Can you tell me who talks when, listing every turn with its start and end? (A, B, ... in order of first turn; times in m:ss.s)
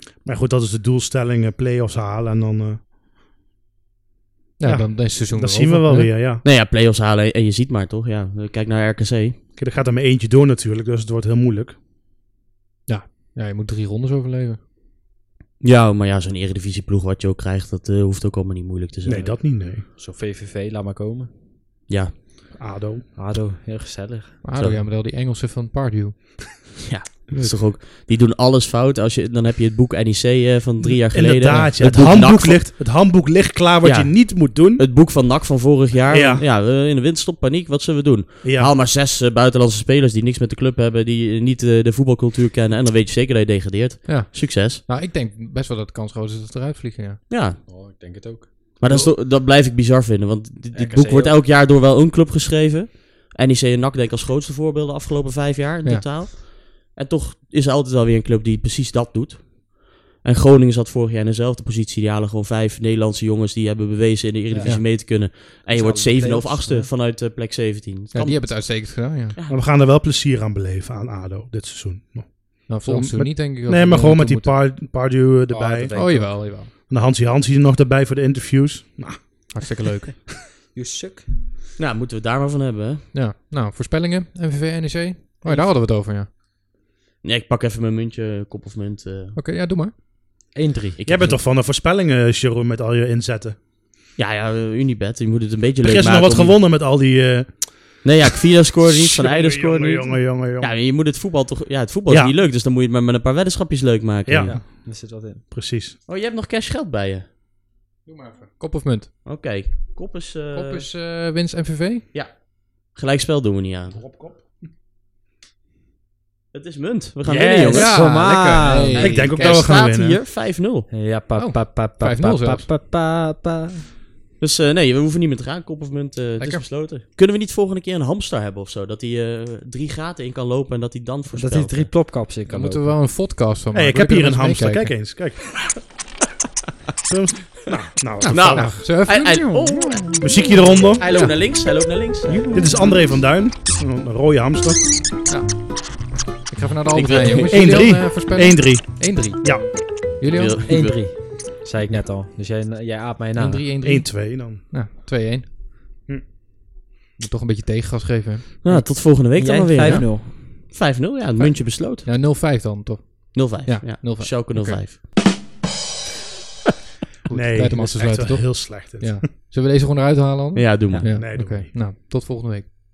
0:00.2-0:02.8 A
0:04.6-0:06.1 B
0:04.6-0:06.4 A
0:06.4-0:09.4 C
0:09.6-0:11.8 A
0:12.9-0:14.6 B
0:15.6-0:19.3 C
0:19.0-0:19.8 A
0:19.1-0:21.3 D
0:21.9-0:22.1 C
0:22.6-0:23.0 A
0:23.1-0:24.4 D
0:24.4-0:26.5 B
0:24.6-0:24.8 C
0:26.8-0:32.7 C
0:31.0-0:34.8 A
0:31.5-0:31.7 B
0:33.8-0:44.8 C
0:36.1-0:36.4 A
0:38.4-0:38.7 A
0:44.0-0:47.2 B
0:47.3-0:47.6 C
0:47.6-0:48.8 D
0:48.8-1:09.6 C
0:50.7-0:51.4 D
1:04.5-1:05.1 D
1:05.7-1:06.9 D
1:08.1-1:09.4 B
1:09.5-1:19.5 A
1:12.7-1:14.6 B
1:15.5-1:16.5 D
1:15.9-1:16.7 B
1:19.5-1:20.2 B
1:20.7-1:21.5 D
1:21.8-1:23.0 C
1:23.1-1:26.3 B
1:25.4-1:25.7 D
1:27.2-1:29.4 C
1:29.4-1:29.9 B
1:30.5-1:31.0 D
1:31.0-1:31.4 C
1:31.0-1:33.6 A
1:34.2-1:36.6 C
1:35.8-1:38.1 A
1:38.0-1:44.6 C
1:38.9-1:40.7 A
1:42.1-1:42.3 A
1:44.2-1:46.0 A
1:44.4-1:45.4 D
1:46.1-1:47.2 C
1:48.0-1:49.1 B
1:49.2-1:50.9 C
1:50.5-1:52.0 B
1:52.1-1:54.0 C
1:53.9-1:54.7 A
1:56.5-1:58.1 C
1:57.2-1:59.2 D
1:57.7-1:59.6 B
1:59.0-2:00.9 C
1:59.0-2:00.2 A
2:00.9-2:03.8 D
2:01.3-2:02.7 B
2:04.4-2:11.9 C
2:06.4-2:06.6 B
2:11.3-2:12.9 D
2:12.5-2:14.9 B
2:13.7-2:15.7 A
2:17.0-2:18.8 A
2:18.2-2:20.0 B
2:18.3-2:22.5 C
2:19.5-2:20.5 D
2:20.2-2:21.0 A
2:21.0-2:21.4 B
2:22.2-2:23.0 D
2:22.3-2:22.6 B
2:22.5-2:24.8 A
2:25.3-2:25.7 B
2:26.5-2:30.8 B
2:26.9-2:27.9 C
2:27.5-2:29.7 A
2:30.2-2:31.2 C
2:30.6-2:33.7 D
2:33.3-2:35.5 B
2:33.8-2:34.6 A
2:37.2-2:38.8 B
2:38.6-2:42.1 C
2:38.7-2:40.8 D
2:42.0-2:44.8 B
2:43.3-2:45.1 C
2:47.3-2:52.7 B
2:47.3-2:49.2 A
2:50.5-2:51.1 C
2:51.0-2:51.7 A